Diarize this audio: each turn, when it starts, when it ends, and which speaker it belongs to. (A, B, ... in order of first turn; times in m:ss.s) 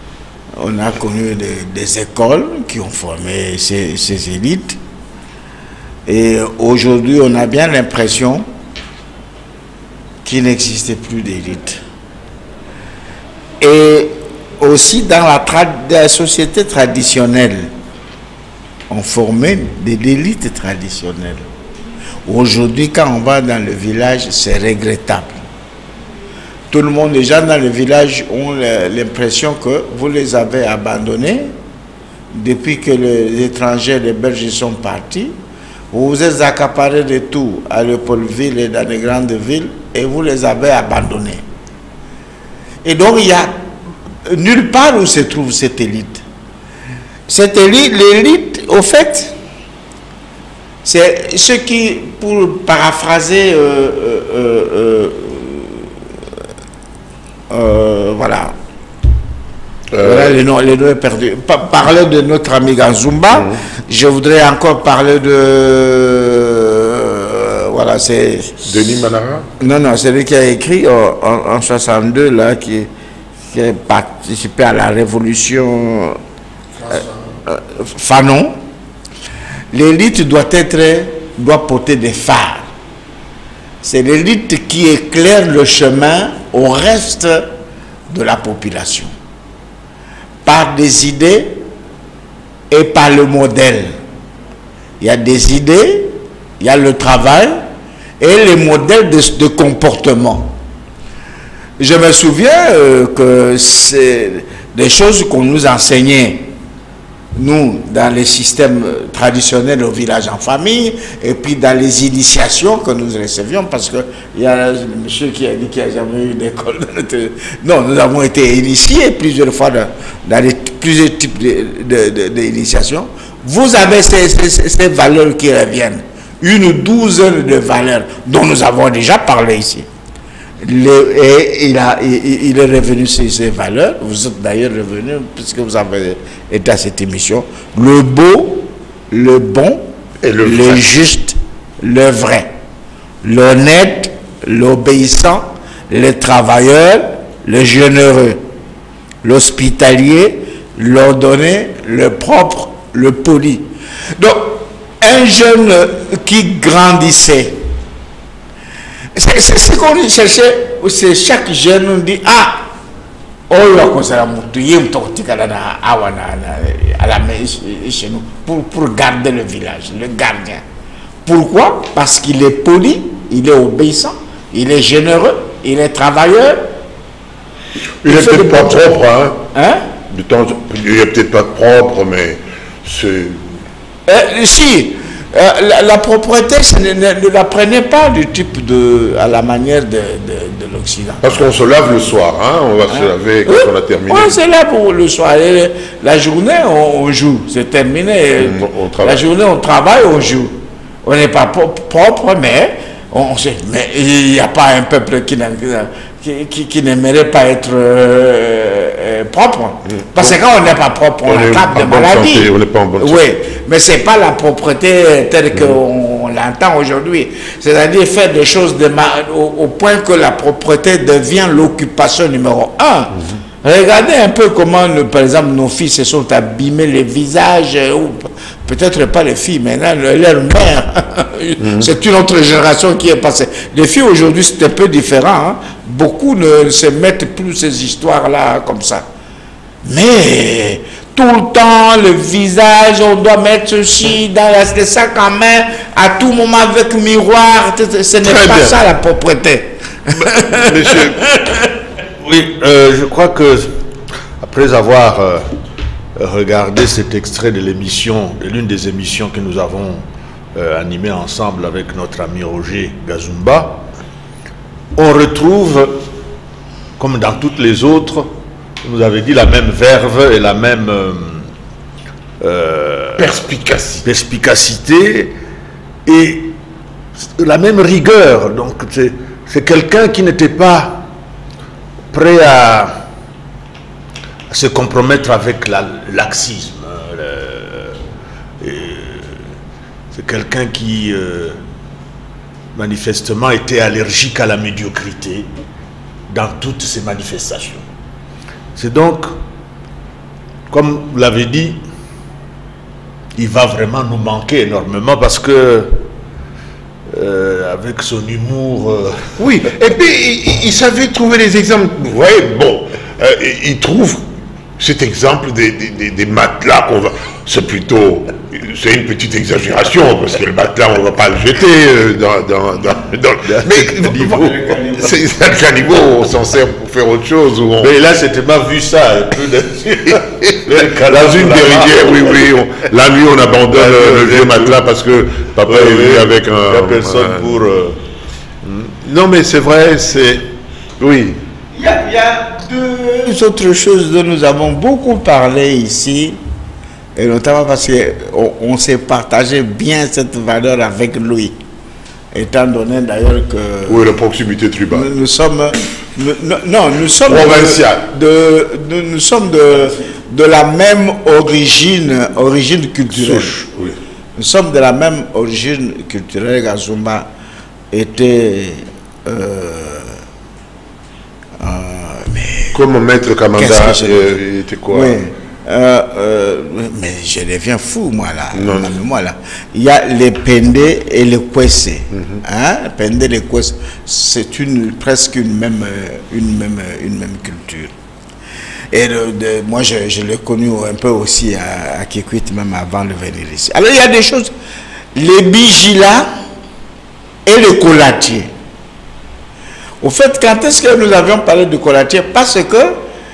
0:00.6-0:04.8 A
0:06.0-0:08.4 A
0:10.2-0:11.8 A
0:13.6-0:17.7 A
0:18.9-0:21.4 A
0:22.2-0:25.4 A
0:26.7-0:31.5 A
0:32.3-0:35.3 A
0:35.9-0:41.4 A
0:42.8-0:43.5 A
0:44.2-0:46.2 A
0:47.3-0:49.3 A
0:50.8-0:55.9 A
0:57.5-0:58.5 A
0:59.9-1:00.4 B
1:00.0-1:08.6 A
1:03.3-1:03.6 B
1:08.6-1:09.5 B
1:09.6-1:12.9 A
1:13.5-1:16.2 A
1:17.4-1:18.6 A
1:19.7-1:22.7 A
1:23.8-1:27.5 A
1:28.1-1:29.1 A
1:30.4-1:31.6 A
1:32.7-1:34.0 A
1:35.0-1:37.6 A
1:38.2-1:40.6 A
1:41.8-1:46.5 A
1:47.4-2:09.8 A
2:10.6-2:19.9 A
2:20.2-2:21.0 B
2:20.4-2:22.5 A
2:23.2-2:28.4 A
2:29.2-2:37.6 A
2:39.1-2:42.7 A
2:43.5-2:50.6 A
2:51.2-2:56.6 A
2:58.0-2:59.4 B
2:58.0-2:59.0 A
2:59.5-2:59.8 A
3:00.1-3:03.4 B
3:04.1-3:11.4 A
3:11.2-3:14.4 B
3:12.9-3:59.0 A
3:18.4-3:19.2 B
3:30.0-3:30.4 B
3:31.2-3:33.2 B
3:51.6-3:51.9 B
3:59.8-4:11.1 A
4:08.2-4:08.8 B
4:10.2-4:11.3 B
4:12.2-4:13.8 C
4:14.4-4:15.5 C
4:16.2-4:23.9 C
4:24.9-4:26.1 C
4:27.0-4:28.3 C
4:28.8-4:31.5 C
4:32.4-4:33.3 C
4:33.2-4:34.0 B
4:34.0-4:35.4 C
4:36.0-4:36.6 C
4:37.2-4:41.1 C
4:42.1-4:43.0 C
4:44.5-4:48.0 C
4:48.6-4:49.5 C
4:50.1-4:51.6 C
4:52.7-4:55.5 C
4:56.3-4:57.8 C
4:58.7-4:59.3 C
5:00.7-5:01.8 C
5:03.3-5:06.0 C
5:07.1-5:09.3 C
5:09.4-5:14.2 B
5:14.8-5:27.9 B
5:23.4-5:25.2 C
5:27.8-5:32.6 C
5:30.5-5:37.6 B
5:33.7-5:34.8 C
5:35.6-5:38.0 C
5:38.6-5:41.4 B
5:41.7-5:46.4 A
5:47.2-5:51.6 A
5:52.3-5:54.1 A
5:53.9-5:55.1 B
5:54.9-6:03.6 A
5:57.2-5:58.0 B
6:03.1-6:04.0 B
6:04.4-6:07.3 A
6:07.9-6:10.2 A
6:11.6-6:12.8 A
6:12.7-6:15.2 B
6:13.6-6:27.9 A
6:18.5-6:18.9 B
6:22.1-6:22.4 B
6:28.9-6:34.5 A
6:35.1-6:36.3 A
6:37.4-6:38.5 A
6:40.0-6:43.0 A